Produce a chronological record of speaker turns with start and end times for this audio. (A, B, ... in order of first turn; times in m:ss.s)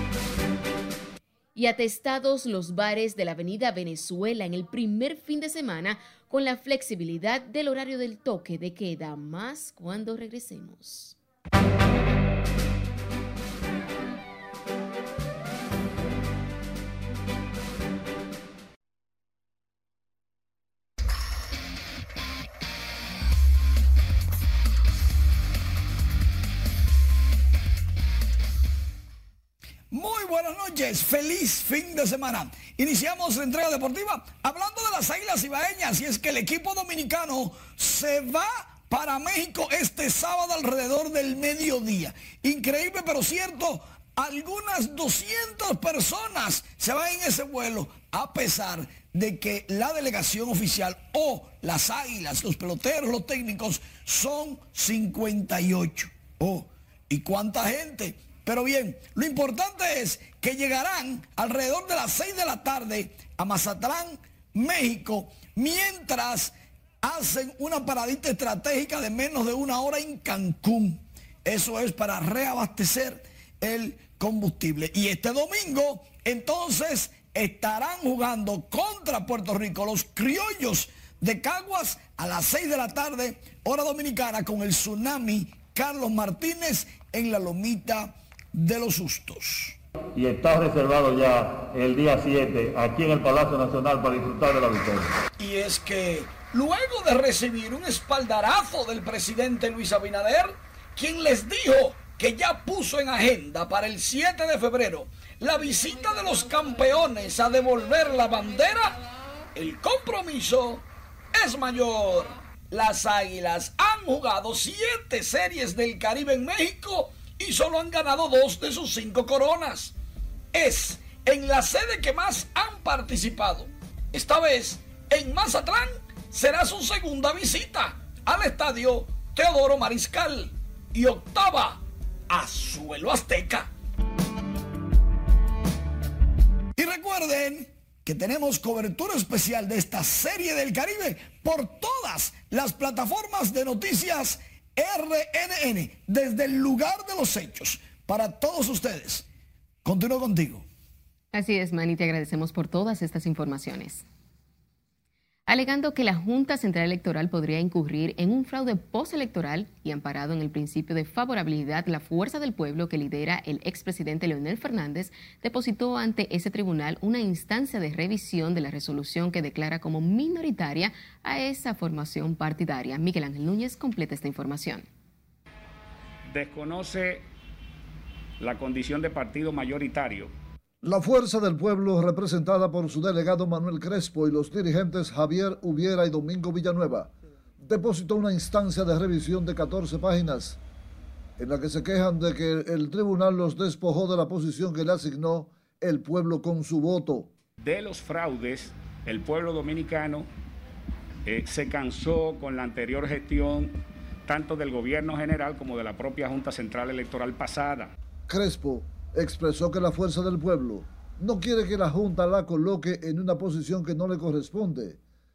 0:01.6-0:11.2 A
0:29.9-1:29.8 B
1:30.2-1:35.0 C
1:35.4-1:49.0 B
1:49.6-1:59.9 B
2:00.5-2:13.7 B
2:16.8-2:29.3 B
2:29.8-2:30.6 B
2:31.3-2:34.0 A
2:35.5-2:54.8 A
2:56.3-2:57.2 D
2:58.4-3:00.3 D
3:00.8-3:10.6 E
3:11.4-3:17.3 E
3:17.6-3:20.3 D
3:21.3-3:27.9 D
3:28.3-3:35.0 E